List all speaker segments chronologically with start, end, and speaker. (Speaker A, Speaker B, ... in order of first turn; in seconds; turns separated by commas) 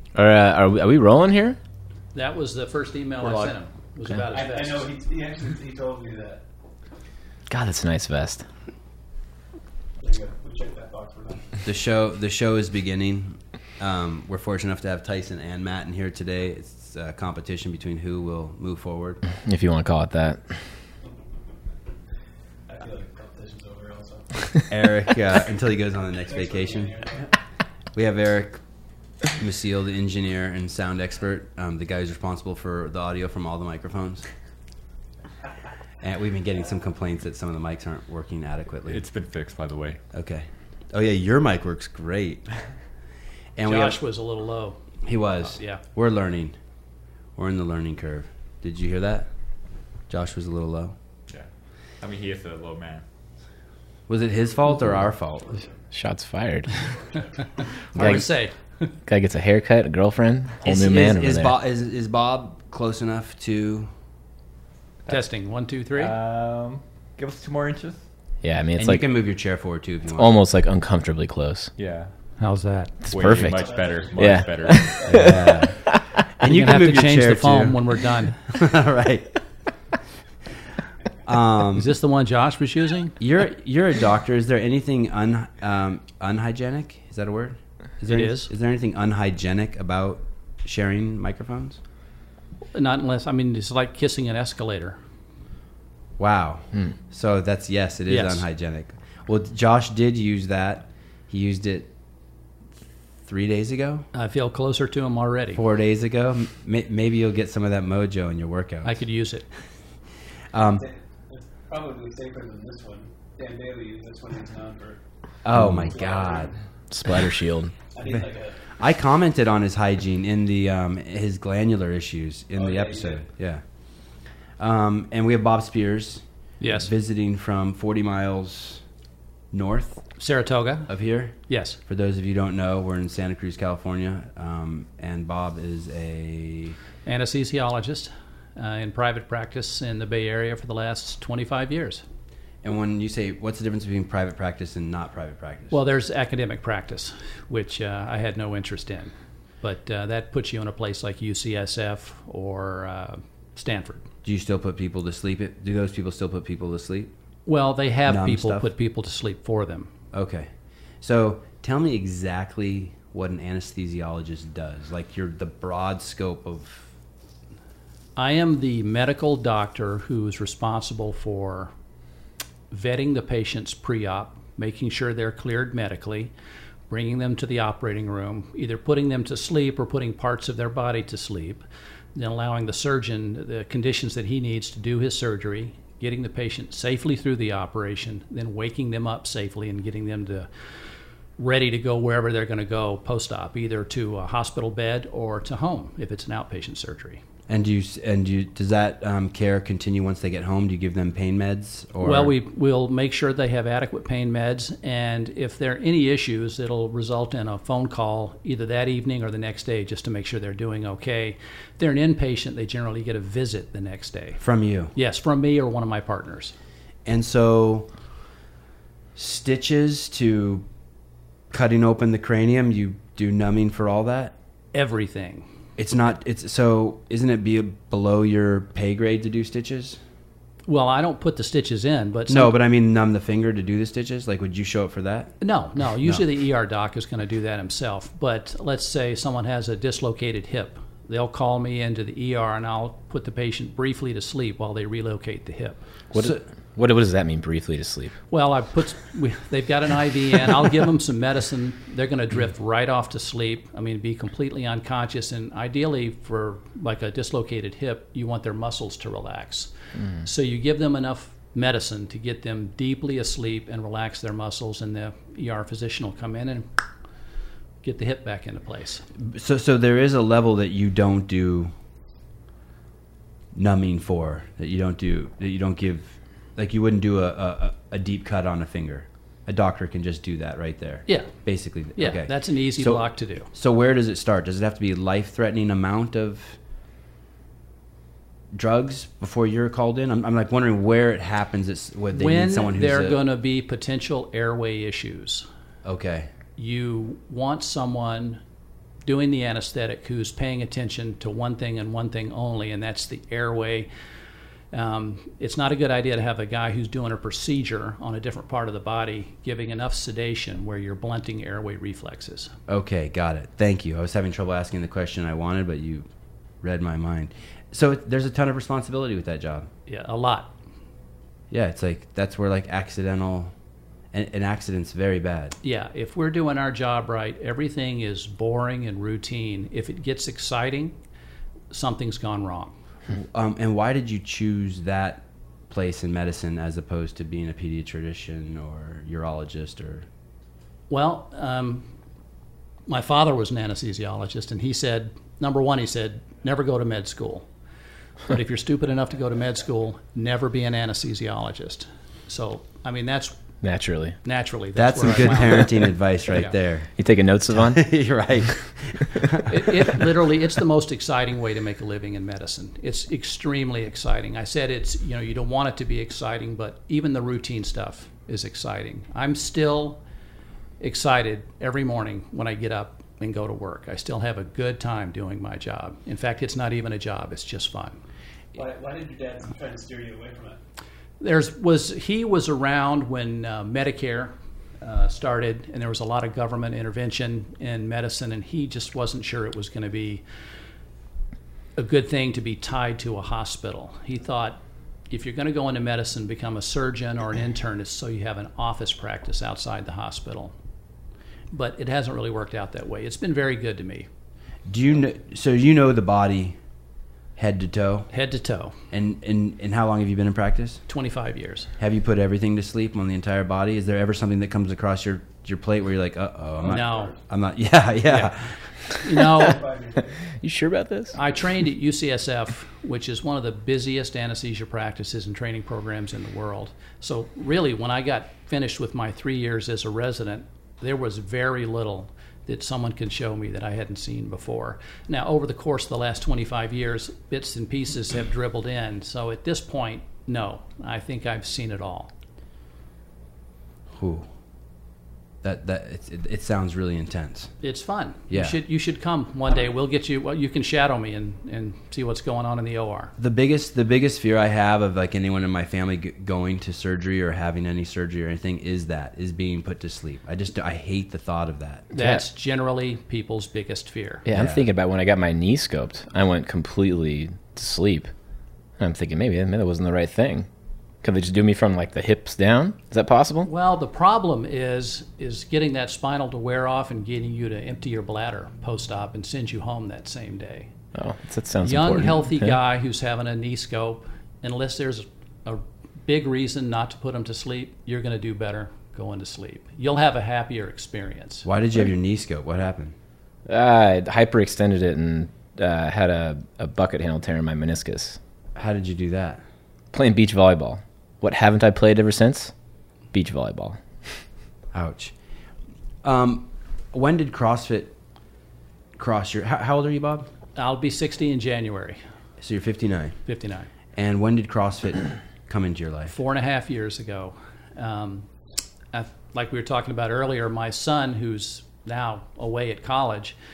Speaker A: 0.1-1.6, Speaker B: 2.1-4.9, Speaker C: 4.3-6.4, Speaker A: 7.5-8.4, Speaker C: 10.0-11.5, Speaker D: 11.6-19.2, Speaker A: 19.4-20.6, Speaker C: 22.7-24.5, Speaker D: 24.7-26.9, Speaker C: 26.2-27.3, Speaker D: 27.9-28.6, Speaker D: 29.3-34.2, Speaker D: 36.0-39.0, Speaker E: 38.9-40.0, Speaker D: 40.1-42.5, Speaker D: 43.5-44.0, Speaker B: 43.6-44.8, Speaker D: 45.0-46.6, Speaker B: 45.4-45.8, Speaker D: 47.4-49.3, Speaker D: 50.1-50.9, Speaker E: 52.0-53.0, Speaker D: 54.1-55.6, Speaker A: 55.9-56.7, Speaker C: 56.9-57.3, Speaker B: 57.9-58.9, Speaker A: 57.9-58.2, Speaker D: 58.0-58.2, Speaker A: 59.0-61.5, Speaker D: 60.6-63.9, Speaker B: 65.1-66.1, Speaker E: 65.9-68.0, Speaker A: 68.4-69.0, Speaker D: 68.8-70.3, Speaker A: 70.1-71.7, Speaker E: 71.8-72.1, Speaker B: 72.4-73.0, Speaker E: 73.0-75.1, Speaker A: 73.0-76.2, Speaker C: 73.3-75.4, Speaker D: 75.0-75.8, Speaker D: 76.4-77.8, Speaker B: 76.4-78.4, Speaker D: 78.5-79.3, Speaker D: 81.2-81.9, Speaker B: 81.7-83.2, Speaker D: 83.2-91.8, Speaker B: 88.1-88.5, Speaker B: 92.7-95.0, Speaker D: 96.2-101.9, Speaker B: 98.1-98.4, Speaker D: 103.2-104.1, Speaker B: 104.1-105.6, Speaker D: 105.5-109.0, Speaker B: 108.8-109.5, Speaker D: 110.5-110.8, Speaker C: 110.6-115.0, Speaker D: 115.4-116.5, Speaker C: 115.7-116.6, Speaker A: 116.9-117.7, Speaker C: 117.9-118.6, Speaker D: 118.8-123.6, Speaker C: 122.5-123.2, Speaker D: 124.6-128.8, Speaker B: 126.6-126.9, Speaker D: 129.5-130.0, Speaker B: 130.2-131.8, Speaker D: 130.9-136.8, Speaker B: 137.0-142.0, Speaker D: 142.6-145.8, Speaker B: 145.7-154.1, Speaker D: 154.2-157.1, Speaker B: 157.4-159.9, Speaker D: 158.1-158.7, Speaker D: 160.1-160.5, Speaker D: 161.0-166.9, Speaker B: 168.2-171.7, Speaker B: 172.7-176.3, Speaker B: 176.9-190.5, Speaker B: 191.4-197.2, Speaker D: 197.5-202.3, Speaker B: 202.0-214.4, Speaker D: 214.4-214.9, Speaker B: 214.9-216.5, Speaker D: 217.1-217.9, Speaker D: 219.2-220.7, Speaker D: 221.5-224.3, Speaker B: 224.7-225.5, Speaker D: 225.8-230.0, Speaker B: 230.7-232.5, Speaker D: 232.3-235.3, Speaker B: 235.4-245.8, Speaker A: 246.1-248.1, Speaker D: 246.2-246.4, Speaker B: 248.3-266.7, Speaker B: 267.8-269.1, Speaker D: 269.2-271.7, Speaker D: 273.5-286.6, Speaker B: 281.1-283.5, Speaker D: 288.5-293.2, Speaker B: 292.1-295.4, Speaker D: 295.8-296.3, Speaker B: 296.6-298.4, Speaker B: 299.0-303.9, Speaker B: 304.7-312.5, Speaker D: 312.7-316.1, Speaker D: 316.6-319.7, Speaker B: 319.9-320.5, Speaker D: 321.5-323.5, Speaker D: 324.1-325.6, Speaker B: 325.6-330.9, Speaker B: 331.7-332.7, Speaker D: 333.1-340.1, Speaker B: 340.9-341.9, Speaker B: 342.9-347.4, Speaker B: 348.3-353.4, Speaker A: 353.6-354.2, Speaker B: 354.2-356.5, Speaker D: 354.8-356.9, Speaker A: 357.0-357.8, Speaker D: 357.5-359.5, Speaker B: 359.4-370.0, Speaker B: 370.8-378.0, Speaker C: 378.5-380.6, Speaker B: 381.2-390.2, Speaker B: 391.8-394.6, Speaker B: 395.1-400.5, Speaker B: 401.5-404.1, Speaker D: 404.6-406.6, Speaker D: 407.4-408.1, Speaker B: 408.1-408.8, Speaker D: 408.9-410.8, Speaker B: 410.9-411.7, Speaker D: 411.8-419.2, Speaker C: 416.6-417.1, Speaker B: 416.6-417.1, Speaker B: 418.1-418.3, Speaker B: 418.9-419.6, Speaker C: 419.3-420.2, Speaker A: 420.4-421.2, Speaker B: 421.1-442.1, Speaker D: 443.9-444.3, Speaker D: 445.4-447.5, Speaker B: 447.6-453.1, Speaker D: 448.3-448.6, Speaker D: 453.2-461.9, Speaker B: 461.9-464.2, Speaker A: 461.9-462.2, Speaker A: 464.2-468.1, Speaker D: 464.3-464.6, Speaker A: 468.8-470.5, Speaker A: 471.0-473.5, Speaker B: 473.4-480.7, Speaker A: 480.9-482.6, Speaker B: 481.6-491.4, Speaker D: 491.4-492.9, Speaker A: 493.4-498.2, Speaker D: 498.6-499.4, Speaker A: 499.9-502.5, Speaker A: 503.1-504.2, Speaker D: 504.7-505.1, Speaker D: 506.0-507.9, Speaker D: 509.0-510.3, Speaker B: 510.6-512.0, Speaker D: 512.4-513.2, Speaker B: 513.2-513.7, Speaker D: 513.9-516.1, Speaker B: 516.1-518.3, Speaker B: 518.9-523.4